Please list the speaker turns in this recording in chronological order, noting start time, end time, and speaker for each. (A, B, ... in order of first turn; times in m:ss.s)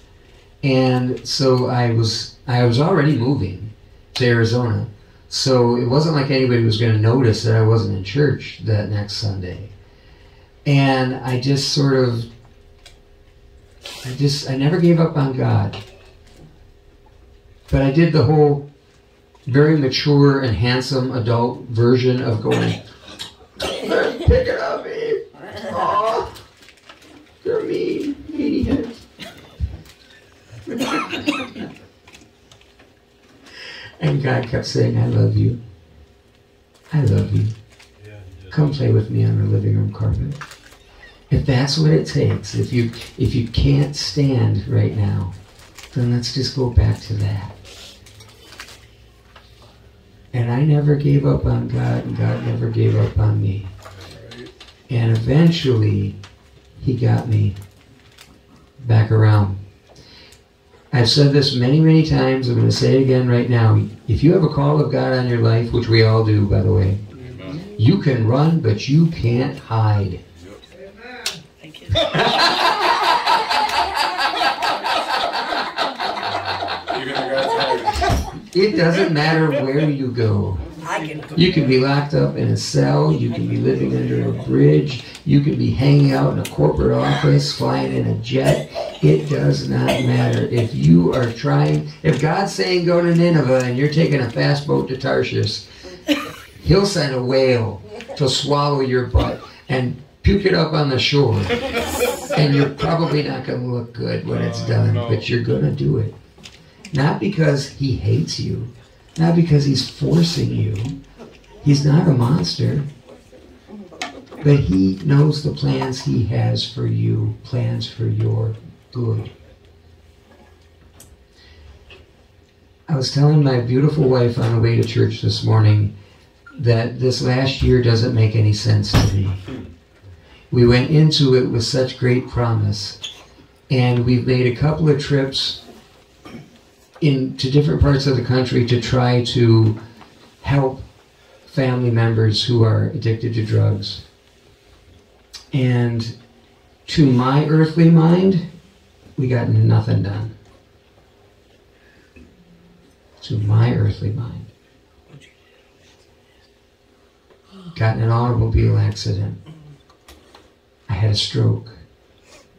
0:00.6-0:09.7 A
0:10.6-0:12.3 A
0:14.0-0:15.8 A
0:17.7-0:18.6 A
0:19.4-0:22.8 A
0:23.6-0:26.4 A
0:27.4-0:29.0 A
0:30.7-0:31.5 A
0:34.0-0:35.6 A
0:36.9-0:37.6 A
0:38.0-0:38.5 B
0:38.5-0:40.4 A
0:41.3-0:45.3 A
0:45.9-0:47.5 A
0:50.3-0:53.7 A
0:54.1-0:54.5 C
0:54.9-0:56.2 A
0:56.8-0:57.6 A
0:58.8-0:59.6 A
1:00.9-1:07.0 A
1:07.1-1:07.7 C
1:07.2-1:07.6 B
1:07.7-1:10.2 A
1:10.4-1:10.6 B
1:11.6-1:12.6 C
1:12.3-1:12.7 A
1:16.6-1:18.2 B
1:18.5-1:20.7 A
1:20.8-1:21.7 C
1:21.3-1:35.6 A
1:36.6-1:41.6 A
1:42.3-1:46.1 A
1:44.7-1:45.2 B
1:46.9-1:51.0 A
1:51.6-1:52.9 A
1:54.4-1:59.3 A
2:02.9-2:05.9 A
2:06.5-2:09.4 A
2:10.5-2:13.0 A
2:13.7-2:15.6 A
2:17.0-2:19.8 A
2:20.4-2:20.8 A
2:21.4-2:24.0 A
2:25.5-2:26.1 A
2:26.8-2:28.4 A
2:29.2-2:30.3 A
2:33.2-2:34.5 A
2:37.7-2:39.4 A
2:40.9-2:41.8 A